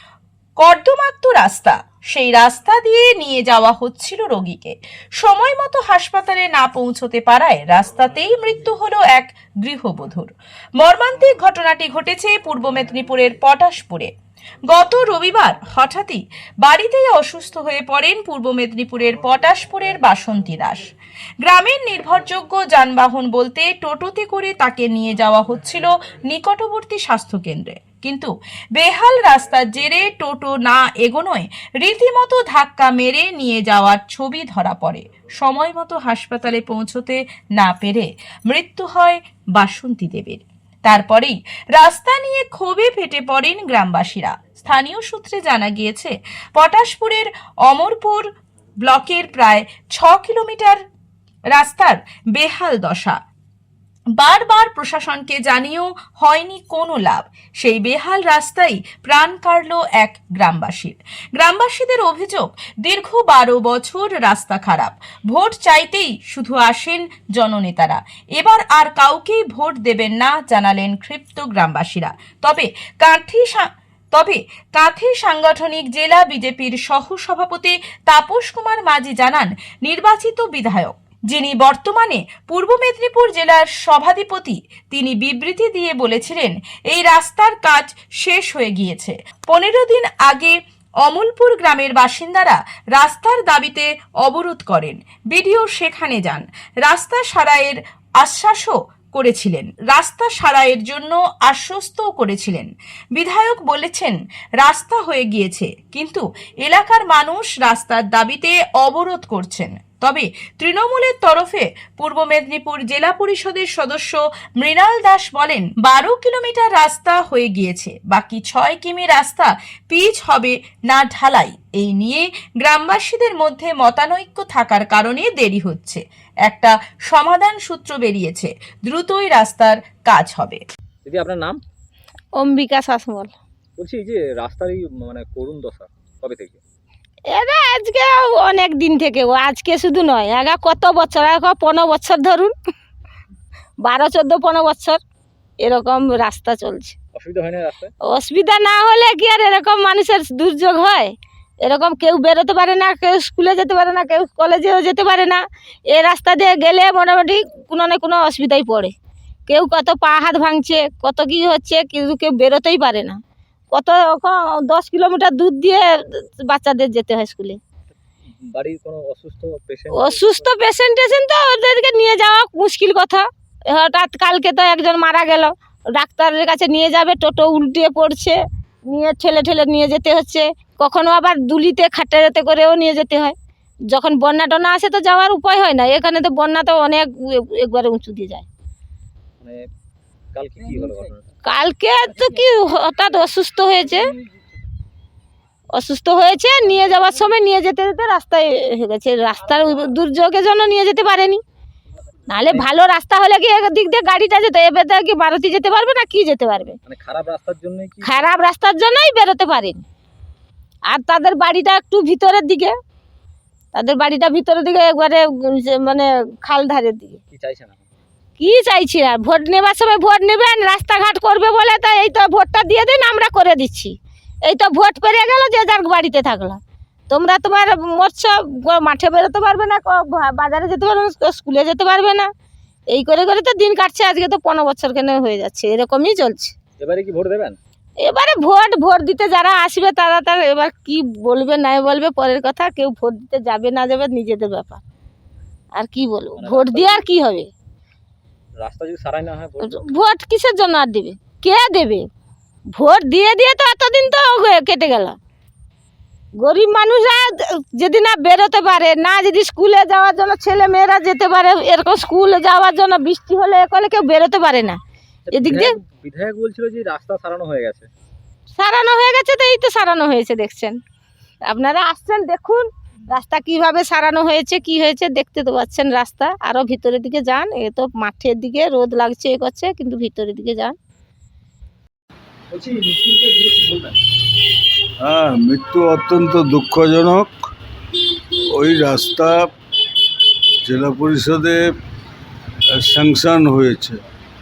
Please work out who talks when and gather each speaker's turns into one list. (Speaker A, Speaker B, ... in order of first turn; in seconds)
Speaker A: 0.6-14.1, 14.7-50.8, 51.5-53.2, 54.1-130.6
Speaker B: 131.1-131.6, 133.8-136.6, 147.1-147.9, 168.5-170.5, 189.4-189.7, 190.3-191.2, 192.2-192.6, 206.9-208.3, 217.3-217.8, 236.8-237.6, 246.4-247.1, 248.6-249.8, 265.3-267.9, 282.5-284.0
Speaker C: 132.4-133.3, 137.3-142.5, 143.8-145.0, 145.6-146.9, 148.1-155.4, 155.9-158.9, 159.5-163.2, 163.7-167.6, 169.9-183.3, 183.9-188.5, 191.5-194.1, 195.8-201.4, 202.3-206.8, 208.0-209.8, 210.9-212.7, 213.7-217.2, 218.4-223.9, 224.5-232.3, 232.9-236.6, 238.0-244.8, 245.8-247.5, 249.6-252.0, 252.8-255.2, 256.4-264.8, 265.3-265.7, 268.6-270.8, 271.5-280.8
Speaker D: 285.0-287.4, 288.5-289.5, 290.6-291.7, 292.8-294.0